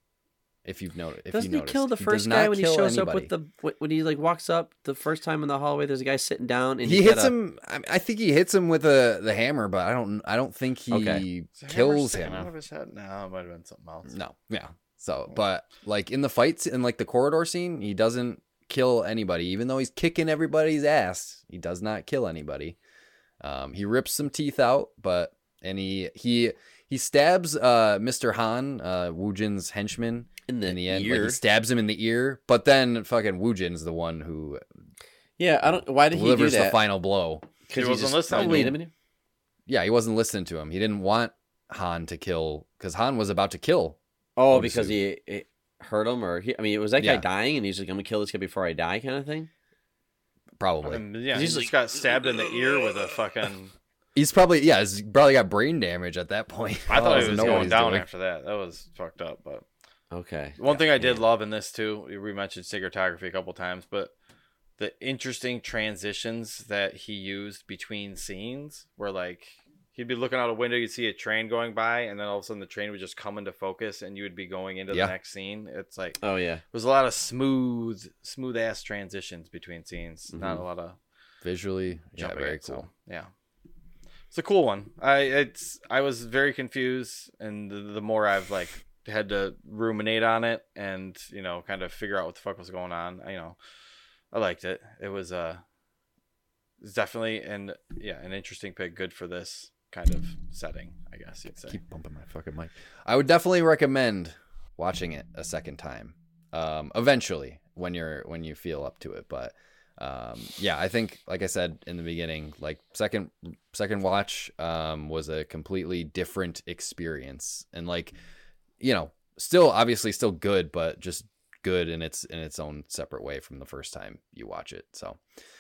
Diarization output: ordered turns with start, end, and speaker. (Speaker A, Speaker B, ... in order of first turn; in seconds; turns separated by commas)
Speaker A: 0.6-3.3, Speaker B: 1.3-7.3, Speaker A: 6.8-12.5, Speaker B: 10.9-11.2, Speaker C: 11.6-14.1, Speaker A: 14.1-22.8, Speaker A: 23.4-34.6, Speaker B: 30.5-31.4, Speaker B: 35.4-36.8, Speaker A: 35.6-37.5, Speaker B: 37.7-38.9, Speaker C: 37.8-38.8, Speaker A: 38.3-38.8, Speaker A: 39.7-44.0, Speaker B: 44.4-49.5, Speaker A: 44.5-45.0, Speaker A: 47.0-47.2, Speaker A: 50.6-51.0, Speaker C: 50.8-53.7, Speaker B: 51.3-51.7, Speaker A: 54.1-58.0, Speaker C: 56.9-59.6, Speaker B: 56.9-57.8, Speaker B: 60.1-61.2, Speaker C: 60.6-64.1, Speaker C: 64.8-76.2, Speaker B: 76.2-76.6, Speaker C: 76.7-81.0, Speaker B: 80.3-80.6, Speaker A: 81.4-82.8, Speaker C: 82.2-83.3, Speaker C: 84.3-93.6, Speaker C: 94.3-95.6, Speaker C: 96.8-101.8, Speaker A: 101.7-118.1, Speaker A: 118.8-125.2